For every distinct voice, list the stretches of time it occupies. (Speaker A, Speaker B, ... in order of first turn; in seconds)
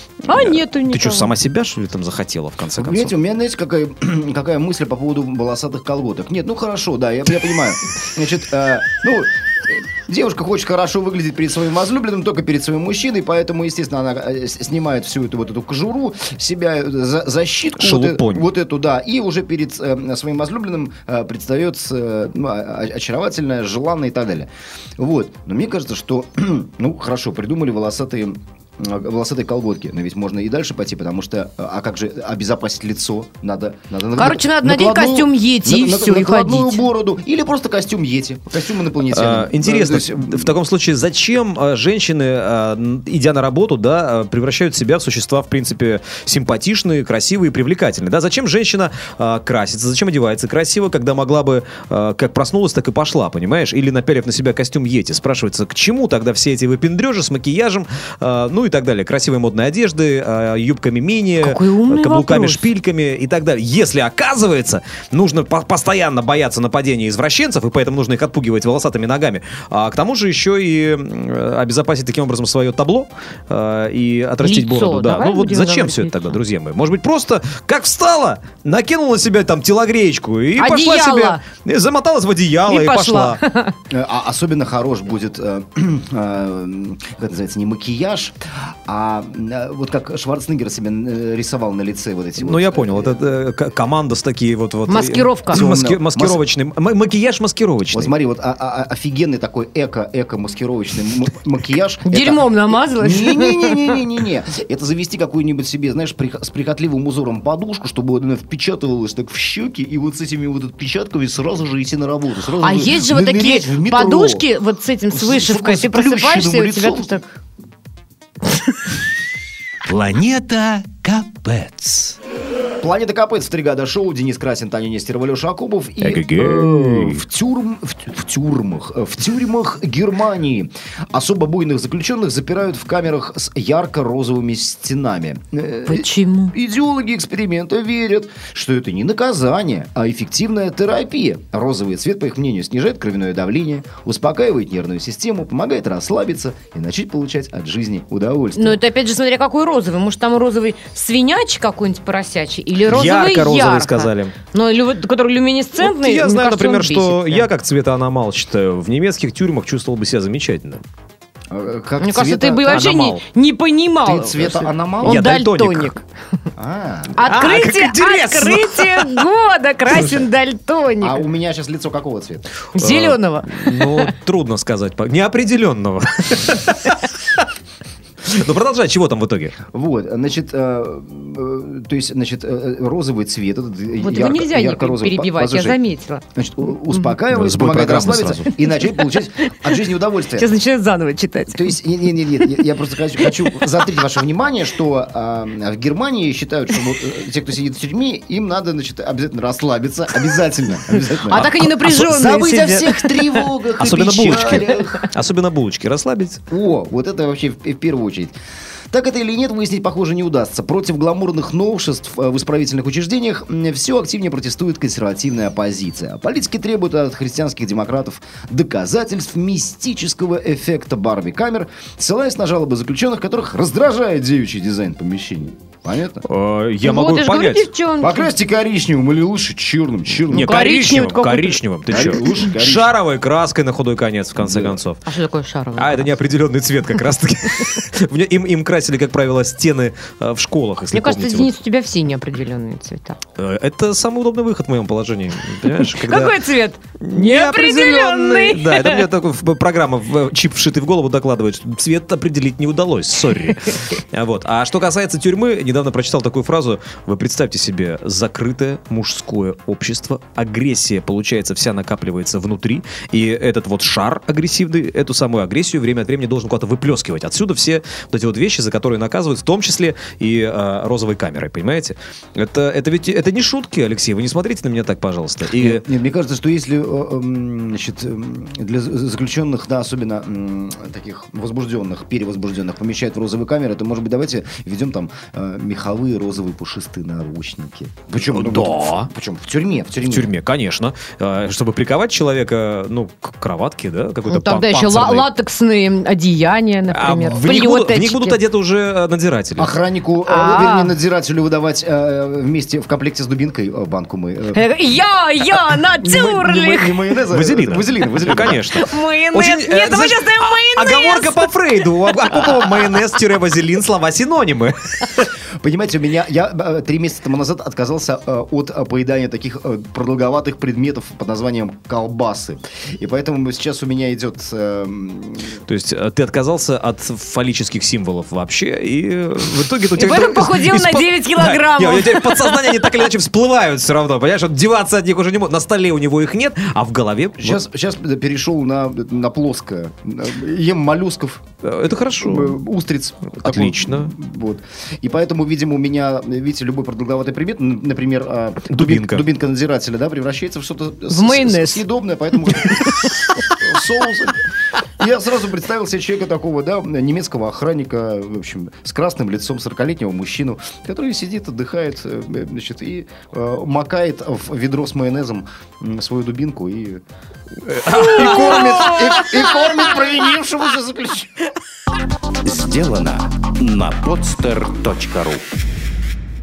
Speaker A: 0.3-1.3, 34.1-36.8, 61.4-62.7, 74.4-76.4, 80.5-81.4, 82.7-83.8, 94.9-95.6, 102.0-104.0, 112.6-117.3, 135.8-136.5, 148.5-157.5, 162.0-166.0, 167.1-171.2, 172.7-174.1, 184.0-186.2, 190.3-191.7, 201.2-203.5, 226.8-228.3, 230.3-232.4, 235.0-236.2, 240.9-243.2, 245.7-249.1, 294.2-298.4, 300.2-300.9, 304.5-307.0, 308.2-312.8, 329.9-333.0, 351.1-351.8, 352.4-353.0
Speaker B: 0.3-3.1, 17.8-18.4, 39.1-83.4, 92.4-98.1, 126.0-127.2, 152.8-154.3, 155.8-160.8, 162.7-163.2, 165.0-165.9, 167.2-169.2, 169.9-170.2, 172.8-177.4, 178.3-179.6, 187.3-188.4, 201.3-202.0, 203.8-206.4, 226.2-227.7, 230.2-235.0, 235.8-241.5, 243.4-246.4, 247.0-275.8, 288.2-289.1, 290.0-295.3, 296.9-299.7, 307.3-315.3, 325.7-337.6, 341.6-342.6, 343.4-344.1, 348.7-349.2, 367.7-369.3
Speaker C: 2.8-40.5, 83.9-93.2, 95.5-96.4, 97.9-114.5, 115.1-117.2, 122.8-148.8, 161.5-162.8, 164.0-165.2, 166.6-167.2, 171.0-172.4, 179.7-185.8, 186.3-190.5, 191.5-205.1, 206.5-208.3, 208.9-226.2, 228.0-230.6, 231.9-232.9, 234.4-234.8, 275.5-290.3, 299.6-304.6, 306.0-308.6, 315.6-325.6, 337.4-341.4, 342.0-354.4, 355.0-367.0, 367.7-371.3
Speaker D: 119.8-122.2
Speaker E: 372.4-375.4